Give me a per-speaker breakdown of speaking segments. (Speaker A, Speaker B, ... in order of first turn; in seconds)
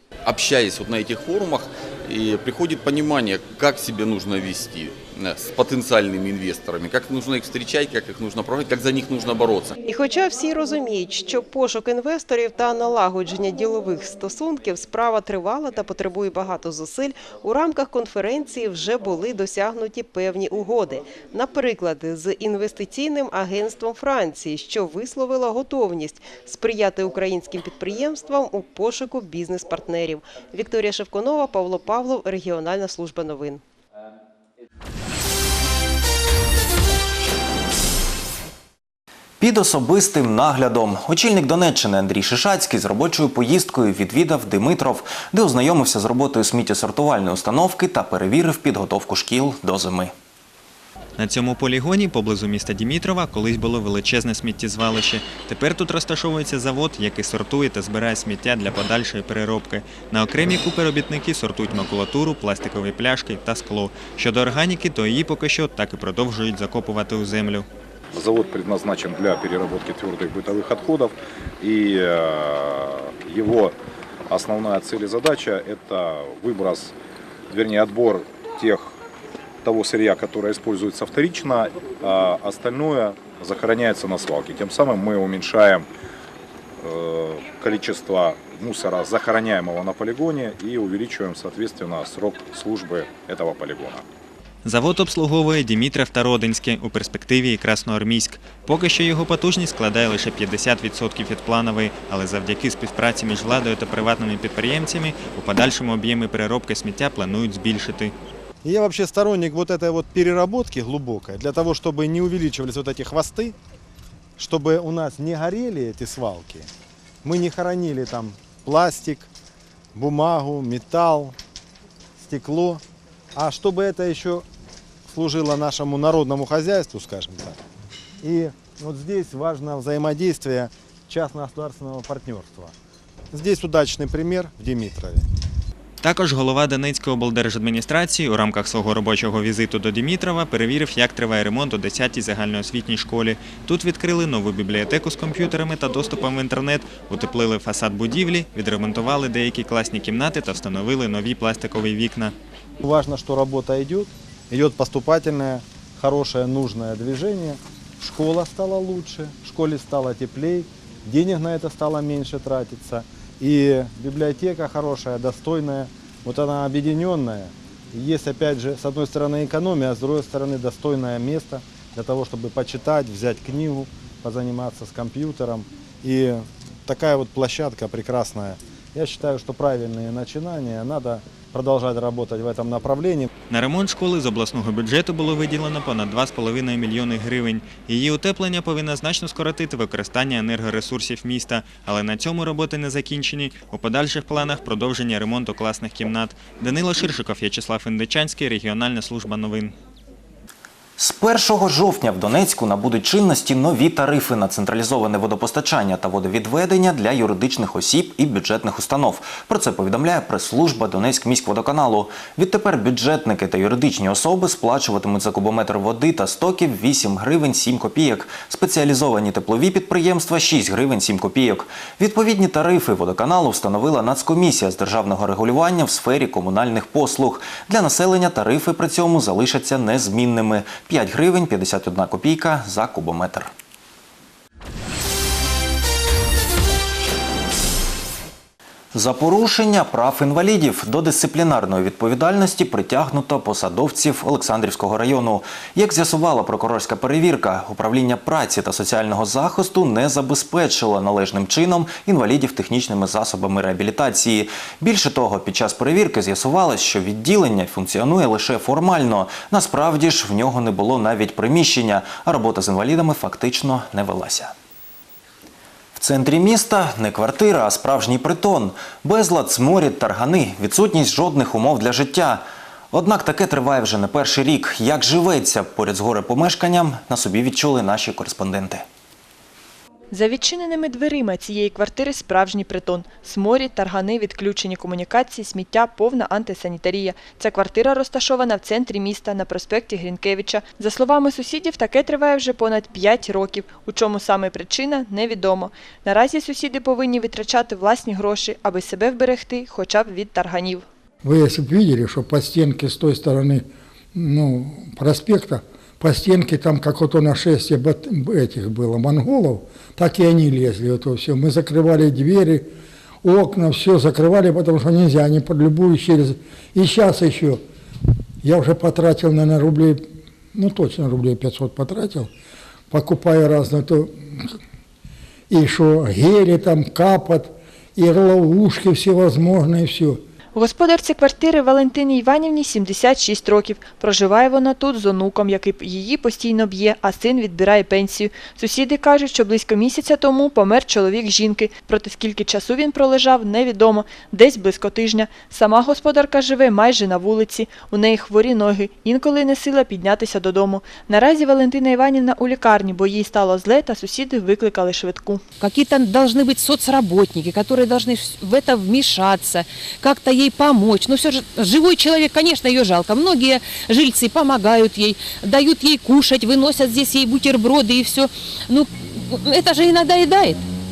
Speaker A: 0.2-9.8
Speaker B: 9.8-33.6
Speaker C: 39.4-50.1, 201.0-233.5, 238.9-264.5, 265.9-278.8
Speaker D: 51.2-67.7, 94.6-108.1, 136.0-152.3, 183.5-199.7
Speaker E: 68.1-73.8, 74.3-76.9, 77.5-79.0, 79.6-85.8, 86.8-94.0
Speaker F: 108.6-113.5, 114.4-116.7, 117.2-119.3, 119.9-121.3, 122.2-122.8, 123.3-124.4, 125.1-127.6, 128.2-132.7, 133.3-135.2, 152.8-183.3
Speaker G: 280.1-300.8, 330.5-355.4
Speaker H: 301.2-303.6, 304.1-312.7, 313.2-317.6, 318.4-320.0, 320.5-322.3, 322.9-324.1, 325.5-330.2
Speaker I: 355.6-370.6